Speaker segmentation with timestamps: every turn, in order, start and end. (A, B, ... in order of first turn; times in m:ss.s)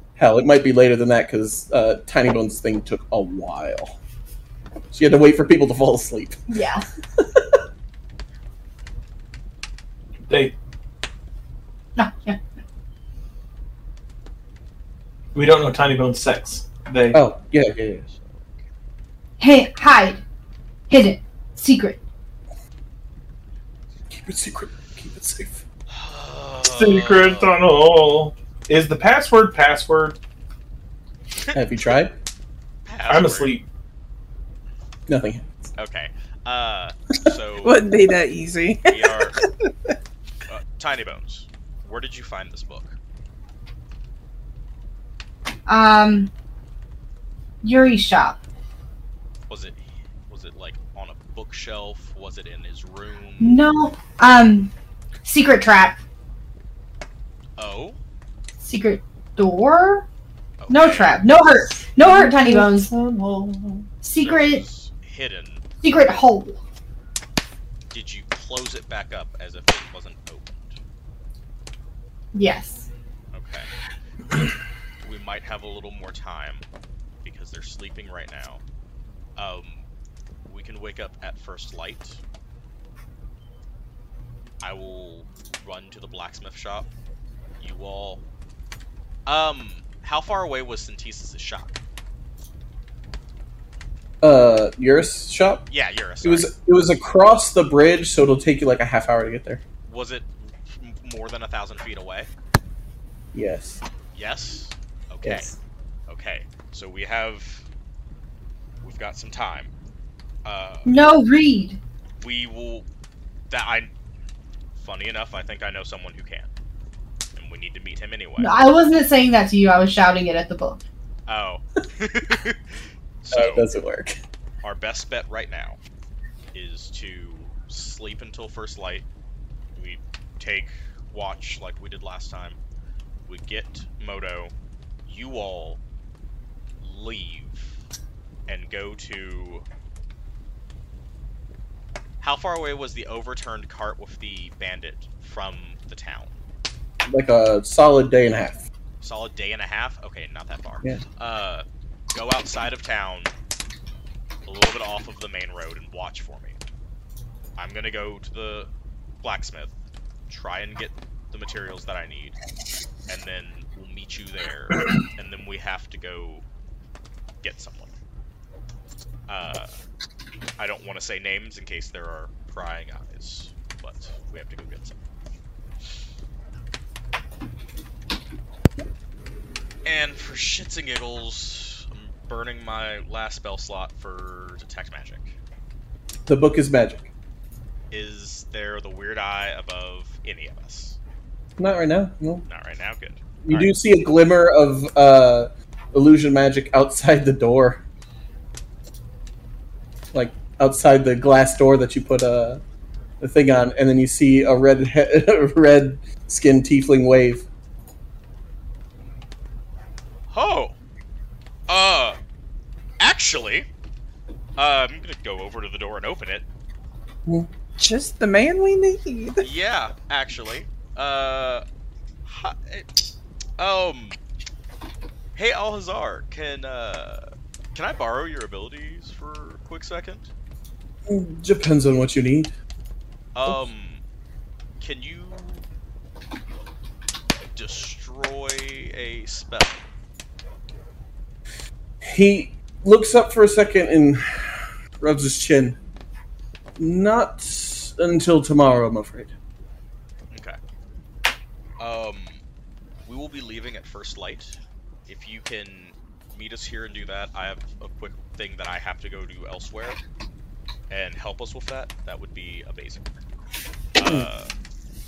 0:00.2-0:04.0 A
0:04.9-0:06.4 A
0:06.5-0:06.8 B
0:07.2-0:07.6 A
0:10.3-0:10.5 C
0:12.0-0:12.4 B
0:15.3-0:17.2 C
0:17.1-0:18.0 A
0:19.4-0:20.2 B
0:20.9-0:22.0 B
0:24.1-0:25.6 A
0:25.9-0:27.6 D
0:26.6-0:30.2 C
0:31.5-0:32.1 A
0:32.8-0:33.6 D
0:33.1-0:33.6 C
0:35.1-0:35.4 A
0:35.8-0:37.8 D
0:37.6-0:39.9 E
0:38.9-0:39.4 D
0:40.5-0:42.9 D
0:45.6-0:46.3 B
0:47.6-0:48.4 B
0:49.5-0:53.6 D
0:53.4-0:54.7 B
0:55.2-0:56.0 B
0:57.6-0:58.0 D
0:58.6-1:00.0 B
1:00.6-1:01.2 D
1:00.7-1:02.9 B
1:02.0-1:03.9 E
1:04.0-1:04.6 B
1:04.2-1:05.6 D
1:05.8-1:06.6 B
1:07.9-1:10.8 D
1:12.3-1:12.9 B
1:13.3-1:13.7 D
1:15.0-1:16.6 D
1:17.2-1:18.6 D
1:19.4-1:19.8 D
1:20.5-1:22.2 D
1:24.6-1:26.9 D
1:27.6-1:28.2 D
1:29.2-1:31.7 D
1:34.2-1:35.7 A
1:35.7-1:36.5 D
1:36.2-1:39.6 A
1:39.8-1:42.3 D
1:43.3-1:43.8 A
1:44.1-1:45.5 D
1:45.2-1:45.5 A
1:46.1-1:47.6 D
1:48.8-1:49.7 D
1:50.4-1:50.9 D
1:50.8-1:51.8 B
1:52.2-1:52.8 D
1:53.5-1:53.9 D
1:54.8-1:56.5 D
1:57.3-1:58.6 D
1:58.4-2:00.8 B
2:01.3-2:03.6 D
2:03.3-2:04.2 A
2:04.6-2:05.8 D
2:06.5-2:09.0 D
2:09.7-2:12.6 D
2:13.3-2:14.5 D
2:15.0-2:15.8 D
2:16.8-2:17.8 D
2:18.5-2:19.6 D
2:22.2-2:26.3 D
2:27.0-2:28.6 A
2:29.0-2:33.3 D
2:34.4-2:36.6 D
2:37.6-2:38.7 D
2:39.2-2:39.7 D
2:40.3-2:42.4 D
2:43.1-2:46.4 D
2:47.4-2:47.9 D
2:49.3-2:49.7 D
2:50.6-2:55.0 D
2:59.8-3:05.3 D
3:06.3-3:07.1 A
3:07.9-3:11.0 D
3:11.6-3:12.4 A
3:12.4-3:13.7 D
3:13.4-3:17.8 A
3:20.1-3:22.6 A
3:23.2-3:27.4 A
3:30.3-3:30.7 D
3:31.7-3:32.2 D
3:33.0-3:33.7 D
3:34.6-3:36.4 D
3:37.8-3:39.5 E
3:39.4-3:41.6 D
3:42.2-3:42.9 D
3:43.6-3:44.2 D
3:45.3-3:47.2 D
3:47.7-3:50.3 D
3:51.1-3:52.5 A
3:53.3-3:54.0 D
3:54.8-3:55.6 D
3:57.5-3:59.9 D
4:02.0-4:05.8 A
4:06.8-4:09.3 A
4:10.3-4:10.6 D
4:11.8-4:12.4 D
4:13.0-4:14.6 D
4:15.1-4:20.0 D
4:20.9-4:23.1 D
4:24.0-4:24.5 D